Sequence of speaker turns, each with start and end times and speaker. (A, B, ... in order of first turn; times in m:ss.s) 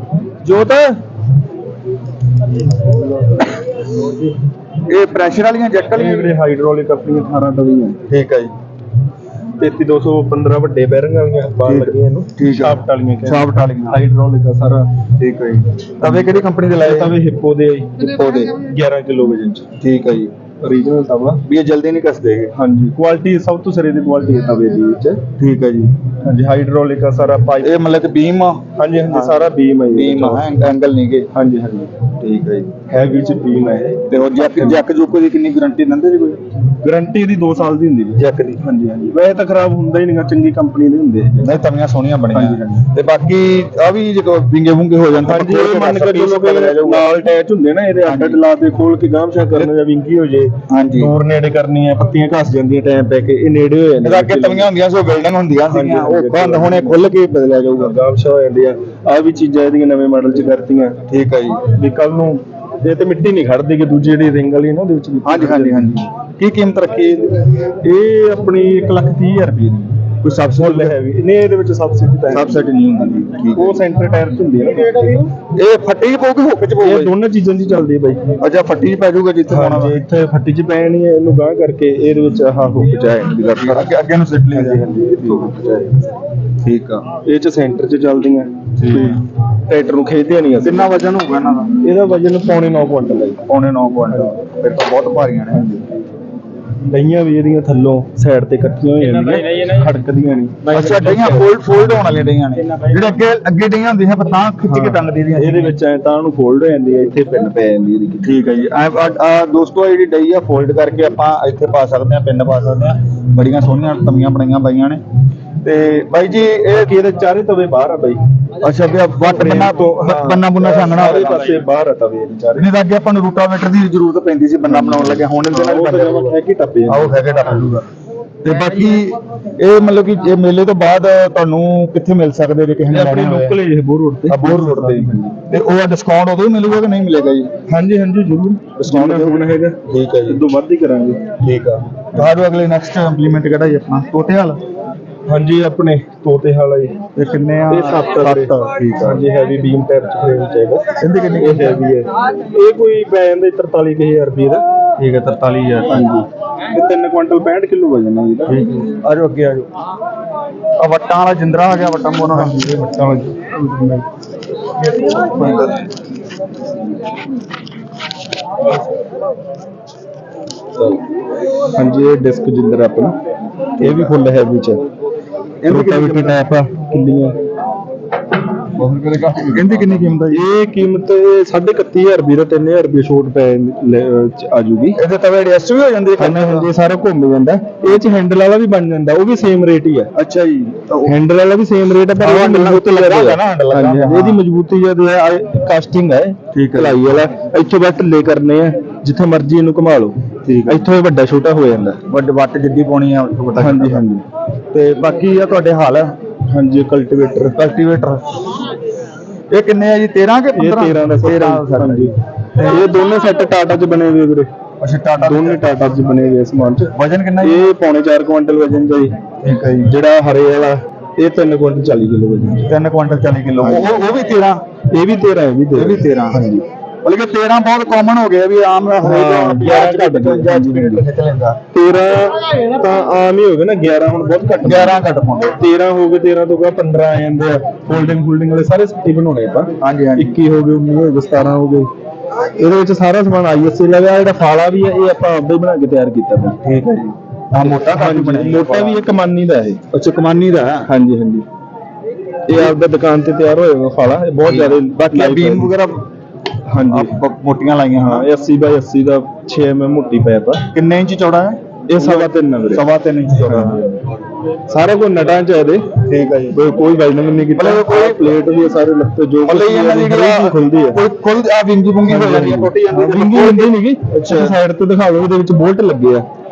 0:00.5-0:00.7 A
0:03.0-0:03.4 A
0:04.8-0:06.4 B
0:05.9-0:08.0 A
0:08.1-0:08.5 B
0:09.6-0:14.9 A
0:11.6-0:14.0 B
0:15.2-0:17.2 B
0:16.0-0:19.7 A
0:18.2-0:18.5 B
0:19.8-0:20.3 B
0:20.6-0:21.4 A
0:21.4-0:22.5 B
0:22.5-0:25.2 A
0:25.4-0:25.9 B
0:26.2-0:27.8 A
0:27.6-0:31.3 B
0:28.8-0:30.5 A
0:31.3-0:31.9 A
0:32.2-0:32.7 B
0:32.9-0:34.8 A
0:34.1-0:36.4 B
0:36.8-0:41.6 A
0:38.2-0:38.6 B
0:41.4-0:47.1 B
0:42.3-0:42.8 A
0:45.2-0:54.7 A
0:48.0-0:48.4 B
0:50.7-0:51.1 B
0:54.0-0:57.9 B
0:55.7-1:01.0 A
1:01.1-1:01.6 B
1:01.7-1:06.0 A
1:05.2-1:07.4 B
1:07.6-1:10.0 A
1:10.2-1:11.0 B
1:10.6-1:12.6 A
1:12.3-1:13.8 B
1:13.2-1:15.3 A
1:15.5-1:17.1 B
1:16.8-1:18.2 A
1:18.4-1:20.0 B
1:19.5-1:23.9 A
1:23.6-1:25.6 B
1:24.5-1:26.0 A
1:26.6-1:27.0 B
1:27.2-1:30.9 A
1:28.8-1:29.2 B
1:30.6-1:31.7 B
1:31.8-1:33.4 A
1:33.5-1:35.8 B
1:36.8-1:41.4 A
1:40.7-1:45.8 B
1:44.7-1:48.4 A
1:48.2-1:55.0 B
1:55.6-1:56.9 B
1:56.7-1:58.2 A
1:58.6-2:01.6 B
1:59.2-2:02.7 A
2:02.6-2:06.3 B
2:04.7-2:07.2 A
2:06.9-2:07.8 B
2:08.4-2:13.6 B
2:12.9-2:15.4 A
2:14.3-2:17.5 B
2:17.7-2:21.2 A
2:18.8-2:20.4 B
2:21.4-2:24.6 B
2:25.3-2:27.0 A
2:27.2-2:29.2 B
2:27.7-2:30.9 A
2:31.0-2:31.9 B
2:31.4-2:34.6 A
2:35.0-2:36.1 B
2:35.9-2:38.8 A
2:38.5-2:39.7 B
2:40.8-2:42.7 B
2:42.3-2:44.0 A
2:44.8-2:45.8 B
2:51.7-2:53.2 A
2:53.8-2:54.2 B
2:53.8-2:54.8 A
2:55.6-2:56.4 B
2:55.6-2:57.4 A
2:58.8-3:00.4 B
3:00.3-3:05.0 A
3:05.0-3:06.7 B
3:06.2-3:10.1 A
3:10.1-3:11.2 B
3:11.1-3:22.0 A
3:12.2-3:14.4 B
3:16.5-3:17.1 B
3:20.4-3:20.9 B
3:22.1-3:24.0 B
3:23.6-3:24.2 A
3:24.7-3:26.1 B
3:26.5-3:27.6 A
3:27.5-3:28.7 B
3:29.5-3:32.8 B
3:30.6-3:34.5 A
3:34.8-3:35.6 B
3:35.2-3:39.2 A
3:36.9-3:37.6 B
3:39.4-3:39.9 B
3:39.8-3:42.7 A
3:42.6-3:44.6 B
3:43.6-3:43.9 A
3:44.9-3:46.6 A
3:45.7-3:46.5 B
3:47.0-3:51.6 B
3:49.0-3:51.0 A
3:51.7-3:55.0 A
3:54.6-3:55.5 B
3:55.6-4:01.9 A
3:59.8-4:00.4 B
4:02.6-4:06.6 A
4:06.6-4:09.1 B
4:07.6-4:09.8 A
4:09.9-4:10.9 B
4:10.8-4:11.4 A
4:12.5-4:15.7 A
4:14.4-4:16.0 B
4:16.7-4:17.1 A
4:16.9-4:18.3 B
4:17.9-4:20.7 A
4:20.7-4:23.8 B
4:21.9-4:22.8 A
4:23.4-4:24.0 A
4:24.7-4:26.0 A
4:26.0-4:26.6 B
4:26.5-4:31.0 A
4:27.6-4:28.4 B
4:29.4-4:34.5 B
4:32.0-4:36.2 A